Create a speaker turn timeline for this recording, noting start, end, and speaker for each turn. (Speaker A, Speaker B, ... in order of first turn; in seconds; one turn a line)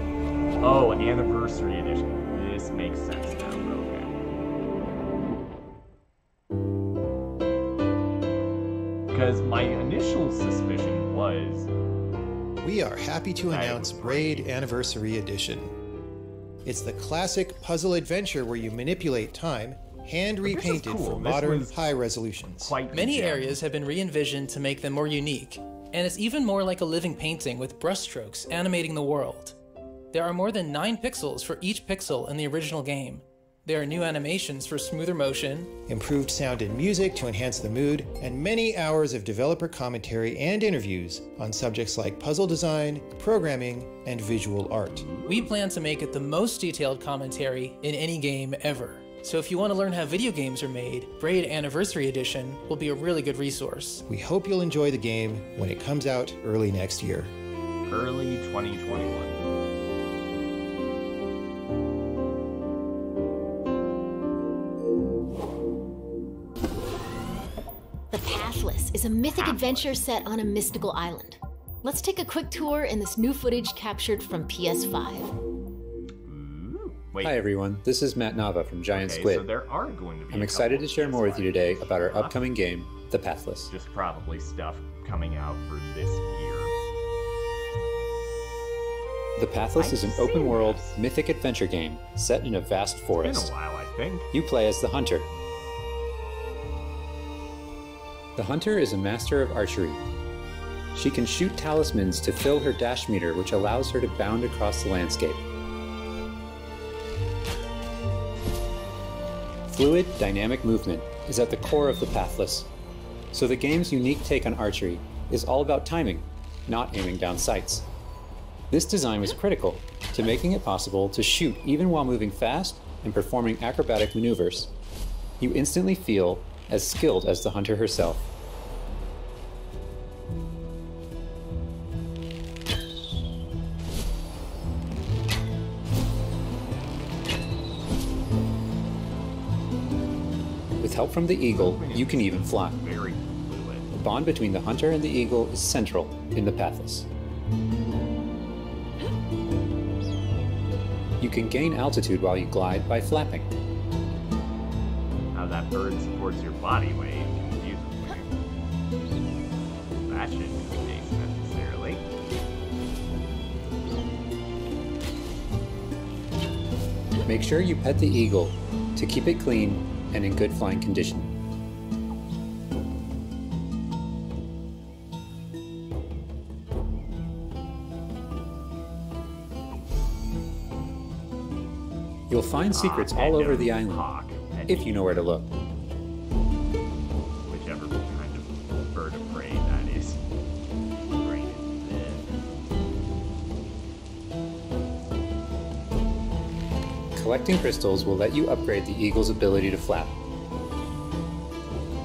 Speaker A: 0.6-4.2
Speaker A: 9.1-11.7
Speaker B: 12.6-15.7
Speaker A: 13.4-14.5
Speaker B: 16.7-22.8
Speaker A: 20.4-23.5
Speaker C: 22.9-29.6
Speaker C: 30.1-35.7
Speaker B: 35.9-45.0
Speaker A: 44.8-45.5
Speaker C: 45.3-54.0
Speaker B: 54.1-57.3
Speaker A: 57.9-59.4
Speaker D: 68.1-75.3
Speaker A: 69.3-70.0
Speaker A: 76.2-77.4
Speaker E: 77.2-79.5
Speaker A: 78.9-82.4
Speaker E: 80.3-83.7
Speaker A: 83.7-86.7
Speaker E: 89.4-93.5
Speaker A: 89.8-91.0
Speaker A: 93.2-94.3
Speaker E: 94.3-95.3
Speaker E: 98.4-100.0
Speaker E: 100.9-105.4
Speaker E: 109.7-112.7
Speaker E: 113.3-117.8
Speaker E: 118.7-124.7
Speaker E: 125.4-128.2
Speaker E: 140.8-142.8
Speaker A: 141.5-143.9
Speaker E: 143.9-147.1
Speaker E: 151.2-153.5
Speaker A: 155.3-158.3
Speaker A: 160.0-162.0
Speaker E: 167.2-171.3
Speaker E: 182.3-184.1
Speaker A: 182.7-185.3
Speaker E: 184.7-185.5
Speaker A: 187.4-190.2
Speaker A: 191.1-192.3
Speaker E: 197.2-200.1